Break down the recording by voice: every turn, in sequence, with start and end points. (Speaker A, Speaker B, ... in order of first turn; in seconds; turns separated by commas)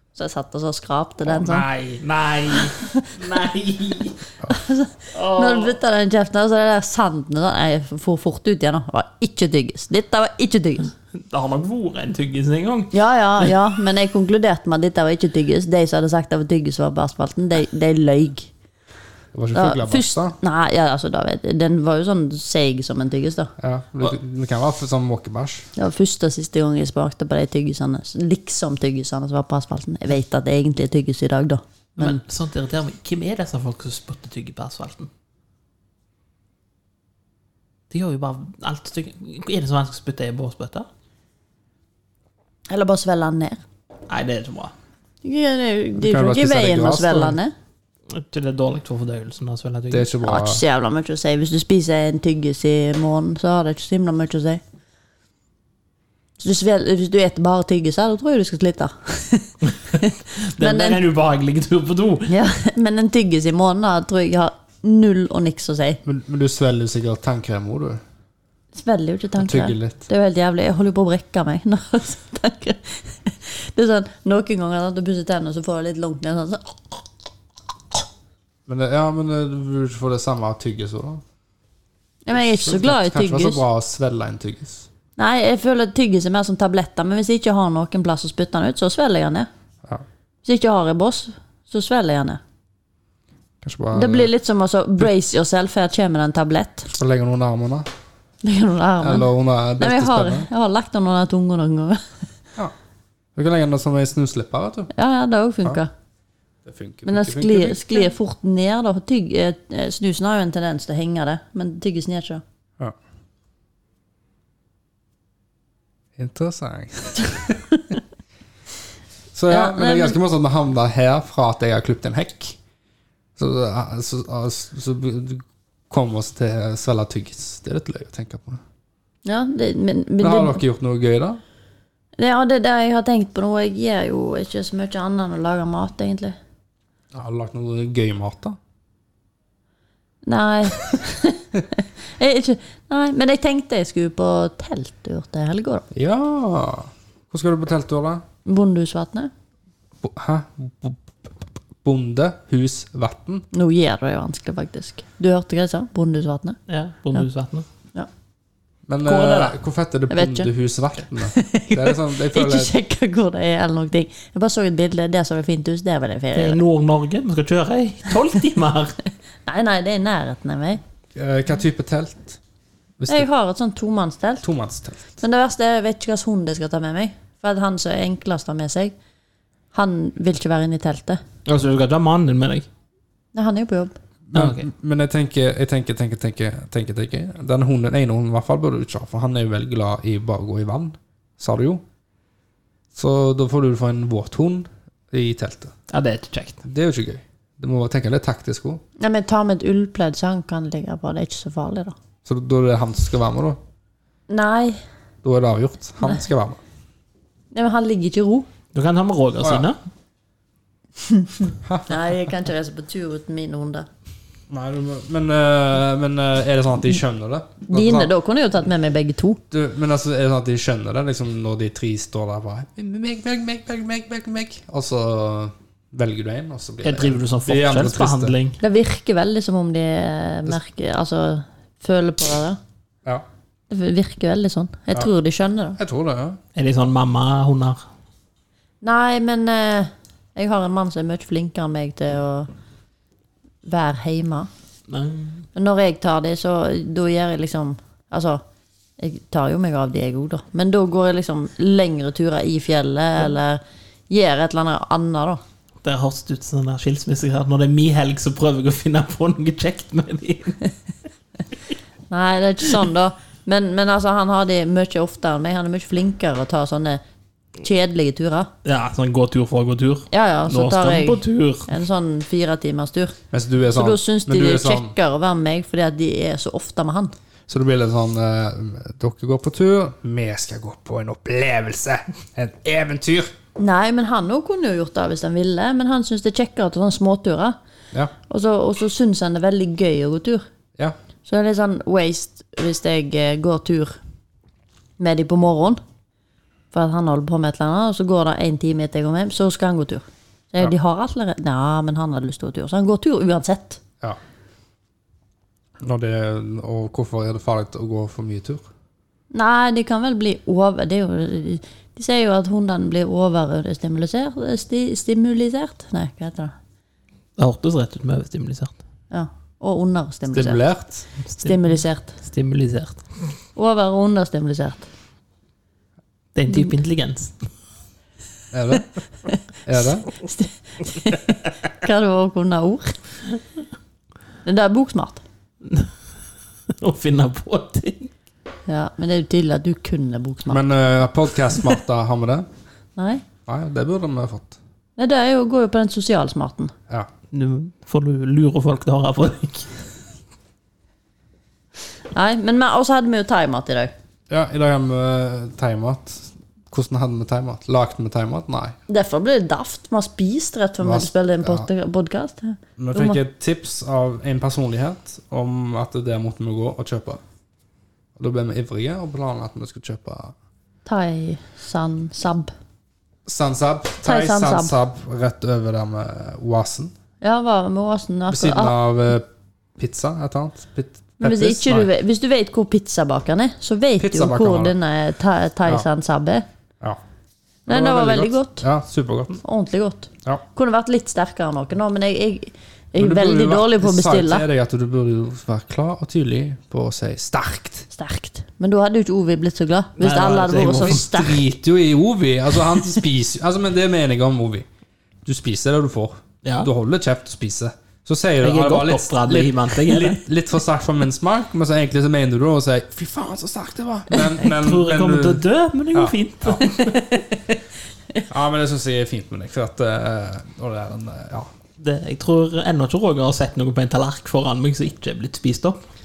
Speaker A: 0.1-1.7, Speaker B: 1.3-4.2, Speaker A: 2.7-3.1, Speaker A: 4.5-10.9, Speaker B: 5.1-5.8, Speaker B: 11.1-13.4, Speaker A: 12.9-18.5, Speaker C: 19.3-20.4, Speaker A: 19.5-23.5, Speaker C: 23.6-25.7, Speaker A: 25.8-32.2, Speaker B: 32.0-35.1, Speaker B: 37.9-40.9, Speaker A: 42.7-43.6, Speaker B: 44.1-44.7, Speaker A: 45.2-47.5, Speaker C: 46.0-47.4, Speaker B: 48.1-50.1, Speaker C: 49.9-50.6, Speaker A: 50.2-54.6, Speaker A: 56.4-61.0, Speaker B: 59.9-62.3, Speaker A: 62.3-66.0, Speaker C: 66.0-68.0, Speaker A: 68.8-77.0, Speaker C: 69.4-70.0, Speaker C: 78.7-81.2, Speaker A: 82.3-83.6, Speaker C: 82.3-84.9, Speaker A: 85.2-89.5, Speaker A: 90.4-92.4, Speaker C: 93.6-94.3, Speaker A: 93.9-96.9, Speaker C: 96.9-97.9, Speaker A: 98.4-99.3, Speaker C: 99.0-100.5, Speaker A: 99.8-102.0, Speaker C: 103.3-104.9, Speaker A: 104.9-105.9, Speaker C: 106.7-108.1, Speaker A: 107.1-112.4, Speaker C: 116.2-117.6, Speaker C: 119.3-122.6, Speaker A: 119.5-120.2, Speaker C: 123.4-128.6, Speaker A: 129.2-130.6, Speaker C: 130.2-131.4, Speaker A: 132.2-136.4, Speaker C: 137.1-138.6, Speaker A: 140.2-145.8, Speaker C: 145.9-148.2, Speaker A: 148.5-149.3, Speaker C: 150.0-153.5, Speaker A: 153.5-156.6, Speaker B: 156.7-157.7, Speaker C: 158.9-162.7, Speaker B: 159.1-159.6, Speaker A: 160.1-160.5, Speaker A: 161.2-166.6, Speaker B: 166.3-169.0, Speaker A: 169.5-170.8, Speaker C: 171.2-172.4, Speaker C: 173.0-173.3, Speaker A: 173.1-174.4, Speaker C: 174.4-175.1, Speaker A: 175.2-178.9, Speaker A: 179.7-181.2, Speaker B: 181.5-182.7, Speaker A: 183.3-184.0, Speaker C: 184.3-191.8, Speaker B: 184.3-184.7, Speaker C: 192.9-195.7, Speaker B: 195.9-196.6, Speaker C: 196.6-198.8, Speaker A: 199.0-201.9, Speaker C: 202.2-203.6, Speaker A: 204.3-204.8, Speaker C: 205.2-206.6, Speaker A: 207.5-208.5, Speaker B: 208.7-209.8, Speaker A: 211.1-213.9, Speaker C: 211.6-212.0, Speaker C: 214.5-218.1, Speaker A: 217.7-219.4, Speaker C: 219.5-228.4, Speaker B: 226.8-228.6, Speaker A: 228.6-232.6, Speaker A: 233.7-235.8, Speaker C: 235.8-236.4, Speaker B: 236.6-237.8, Speaker A: 238.8-242.5, Speaker A: 243.7-244.5, Speaker B: 244.9-245.5, Speaker A: 245.6-248.4, Speaker A: 249.0-255.4, Speaker B: 255.8-260.6, Speaker A: 262.1-267.0, Speaker A: 267.6-268.5, Speaker B: 268.6-271.7, Speaker A: 270.1-273.2, Speaker C: 273.3-274.9, Speaker A: 273.7-277.1, Speaker C: 277.5-283.3, Speaker A: 283.6-287.6, Speaker A: 288.3-290.5, Speaker A: 291.3-294.0, Speaker A: 295.0-295.8, Speaker A: 296.7-303.8, Speaker C: 305.8-308.7, Speaker A: 309.3-316.5, Speaker B: 317.4-318.7, Speaker A: 319.1-320.6, Speaker C: 320.3-321.1, Speaker A: 321.4-322.1, Speaker B: 322.2-323.1, Speaker A: 323.6-324.9, Speaker B: 326.4-327.5, Speaker C: 328.5-328.9, Speaker C: 329.7-330.1, Speaker A: 330.1-333.0, Speaker A: 334.4-335.2, Speaker B: 335.6-335.9, Speaker B: 336.7-338.1, Speaker A: 338.7-340.6, Speaker C: 340.5-342.5, Speaker A: 343.0-343.2, Speaker C: 343.5-344.6, Speaker A: 345.0-346.7, Speaker B: 347.3-349.7, Speaker A: 352.1-353.9, Speaker C: 354.3-358.8, Speaker A: 358.9-363.2, Speaker C: 360.8-361.7, Speaker C: 362.8-367.2, Speaker C: 368.2-370.4, Speaker A: 370.9-372.5, Speaker C: 373.3-376.9, Speaker A: 374.0-374.8, Speaker A: 377.2-378.8, Speaker C: 378.3-379.3, Speaker C: 379.8-381.9, Speaker A: 381.2-386.5, Speaker C: 384.0-384.8, Speaker A: 387.7-388.6, Speaker C: 387.7-389.4, Speaker A: 389.4-394.4, Speaker C: 393.0-397.9, Speaker A: 397.9-401.4, Speaker B: 400.0-401.0, Speaker C: 400.8-404.7, Speaker C: 405.2-415.4, Speaker B: 406.4-406.7, Speaker B: 408.4-410.2, Speaker B: 414.2-417.1, Speaker C: 415.9-416.6, Speaker C: 418.3-421.5, Speaker B: 421.8-425.8